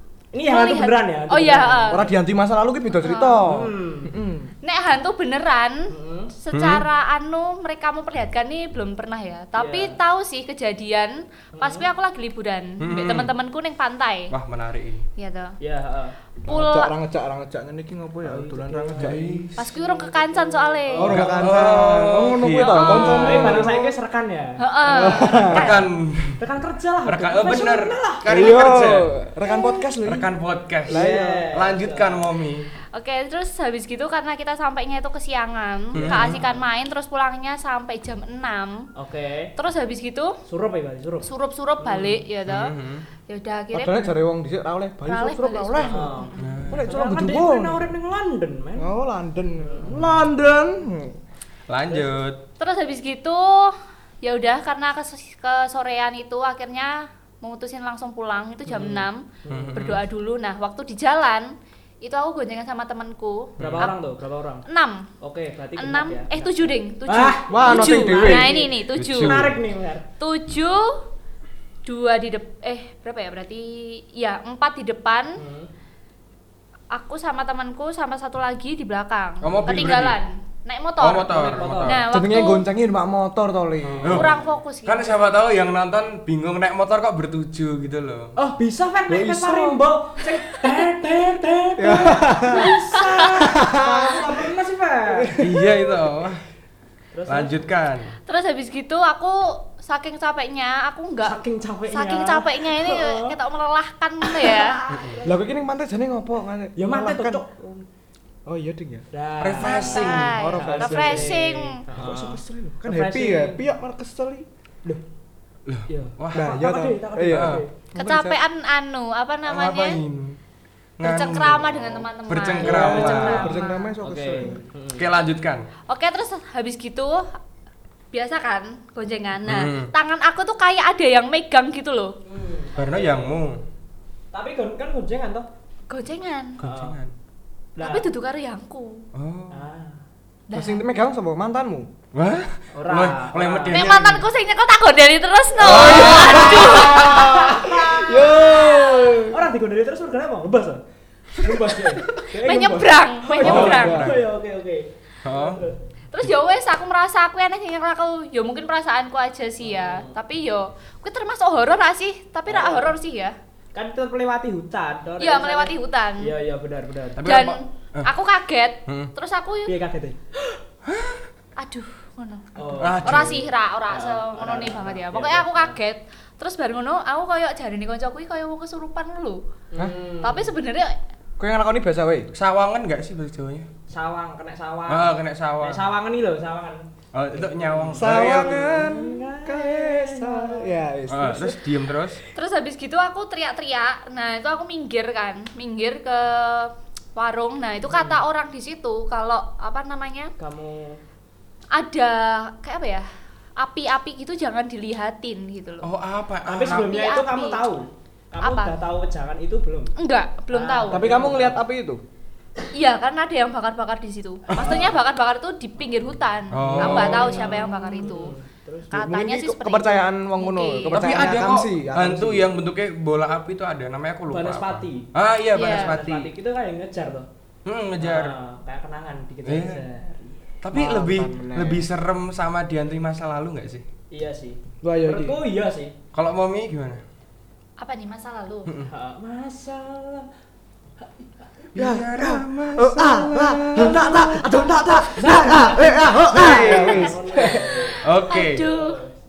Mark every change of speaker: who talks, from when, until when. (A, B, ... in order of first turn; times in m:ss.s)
0:00.3-0:02.1 A
0:00.4-0:02.0 B
0:01.9-0:04.5 C
0:03.0-0:03.5 B
0:03.5-0:04.2 A
0:04.6-0:14.3 B
0:05.9-0:06.3 A
0:06.5-0:06.8 D
0:09.6-0:10.0 A
0:11.6-0:11.9 A
0:12.8-0:13.3 D
0:14.3-0:15.0 D
0:15.2-0:15.6 B
0:15.6-0:16.2 A
0:16.5-0:19.5 C
0:16.5-0:16.9 B
0:18.2-0:21.5 A
0:19.0-0:19.6 D
0:19.6-0:21.3 B
0:20.9-0:24.0 C
0:21.1-0:23.7 D
0:22.7-0:25.9 A
0:22.8-0:23.2 B
0:24.6-0:25.7 B
0:24.9-0:25.7 C
0:25.5-0:26.4 D
0:26.4-0:28.6 A
0:27.0-0:29.1 D
0:28.3-0:30.3 C
0:30.0-0:32.7 D
0:30.9-0:31.5 C
0:30.9-0:32.3 A
0:32.9-0:38.9 B
0:35.9-0:36.4 D
0:36.0-0:36.6 A
0:39.0-0:39.5 A
0:39.6-0:40.4 B
0:40.5-0:41.3 A
0:41.2-0:42.8 B
0:41.8-0:42.2 A
0:42.5-0:43.1 D
0:43.3-0:44.2 B
0:43.7-0:46.2 C
0:45.1-0:46.7 B
0:45.8-0:48.9 A
0:46.4-0:46.9 D
0:46.7-0:47.8 C
0:48.8-0:51.2 C
0:49.6-0:49.9 A
0:51.7-0:52.4 D
0:52.6-1:03.9 B
0:58.7-1:00.0 A
0:59.5-1:00.0 D
1:03.6-1:03.9 D
1:03.6-1:04.7 A
1:04.7-1:05.1 B
1:05.2-1:10.1 A
1:05.8-1:09.4 B
1:07.5-1:08.7 C
1:08.9-1:09.6 D
1:10.2-1:11.0 B
1:11.9-1:15.4 B
1:15.4-1:15.7 A
1:16.9-1:22.7 B
1:19.4-1:20.2 D
1:21.0-1:22.0 D
1:21.3-1:22.0 A
1:22.1-1:24.4 C
1:23.8-1:28.3 D
1:24.0-1:25.2 B
1:28.4-1:35.3 A
1:29.1-1:29.8 C
1:31.8-1:32.7 C
1:33.4-1:34.3 C
1:35.2-1:35.7 C
1:35.4-1:36.4 D
1:37.1-1:37.6 A
1:37.3-1:38.1 D
1:38.3-1:41.4 B
1:41.2-1:43.4 A
1:41.9-1:44.8 B
1:44.3-1:45.4 A
1:44.9-1:45.2 D
1:45.2-1:47.4 C
1:46.8-1:47.9 A
1:48.5-1:49.1 C
1:49.1-1:53.6 A
1:49.4-1:50.3 D
1:49.6-1:51.8 B
1:50.3-1:51.4 C
1:51.9-1:54.5 C
1:55.7-1:56.6 D
1:55.9-1:57.7 A
1:56.3-1:58.4 C
1:57.3-1:57.6 D
1:58.0-2:00.0 B
1:59.5-2:00.4 D
2:01.0-2:03.5 D
2:01.0-2:03.9 B
2:02.6-2:03.5 A
2:02.7-2:04.6 C
2:04.0-2:05.1 A
2:05.0-2:05.7 D
2:05.9-2:07.3 B
2:08.1-2:12.2 B
2:09.4-2:09.9 D
2:12.3-2:13.4 A
2:12.8-2:13.6 D
2:14.3-2:15.5 A
2:15.9-2:16.6 B
2:16.6-2:17.1 D
2:16.6-2:17.0 A
2:17.8-2:18.1 A
2:17.8-2:19.1 B
2:19.1-2:19.6 D
2:19.5-2:20.0 A
2:20.5-2:20.8 B
2:20.5-2:21.9 C
2:22.1-2:24.2 D
2:22.7-2:23.8 A
2:23.7-2:27.8 B
2:25.6-2:29.4 C
2:25.6-2:26.8 D
2:26.0-2:30.8 A
2:31.3-2:35.8 A
2:32.3-2:32.6 C
2:32.4-2:34.1 B
2:33.3-2:34.2 C
2:33.4-2:34.2 D
2:35.2-2:35.6 D
2:36.1-2:43.4 B
2:39.6-2:40.1 A
2:42.5-2:42.9 A
2:43.8-2:47.2 A
2:45.2-2:46.3 B
2:47.2-2:48.1 D
2:47.2-2:49.7 B
2:48.9-2:49.1 D
2:49.7-2:50.6 A
2:50.9-2:51.2 D
2:51.6-2:59.4 B
2:52.6-2:55.8 A
2:52.8-2:53.4 D
2:59.7-3:00.5 A
3:00.2-3:01.0 B
3:01.4-3:02.3 C
3:02.3-3:03.7 D
3:03.9-3:10.7 A
3:04.9-3:05.8 D
3:07.1-3:08.8 D
3:07.9-3:11.6 C
3:11.1-3:12.2 D
3:12.3-3:20.3 B
3:17.9-3:18.2 A
3:20.4-3:21.0 A
3:21.7-3:23.1 B
3:23.6-3:25.9 B
3:25.8-3:26.9 D
3:26.5-3:29.9 A
3:26.7-3:27.6 B
3:28.4-3:28.7 B
3:30.0-3:31.2 B
3:30.5-3:31.6 A
3:30.9-3:32.0 C
3:32.7-3:38.4 B
3:34.6-3:35.0 A
3:36.5-3:37.5 D
3:36.7-3:38.9 A
3:36.7-3:37.1 C
3:38.9-3:42.5 C
3:38.9-3:41.2 B
3:40.9-3:46.3 D
3:44.3-3:47.3 A
3:45.5-3:46.0 B
3:47.6-3:48.4 D
3:48.0-3:50.4 A
3:49.5-3:49.8 D
3:50.6-3:53.8 D
3:50.7-3:51.9 C
3:54.1-3:56.0 A
3:54.8-3:55.4 C
3:56.1-3:57.0 D
3:57.8-3:58.7 B
3:58.9-4:00.3 A
4:01.0-4:01.7 A
4:01.8-4:04.5 D
4:01.8-4:07.9 C
4:04.9-4:08.0 A
4:06.2-4:07.1 D
4:08.0-4:08.7 D
4:08.2-4:09.0 B
4:08.6-4:09.2 A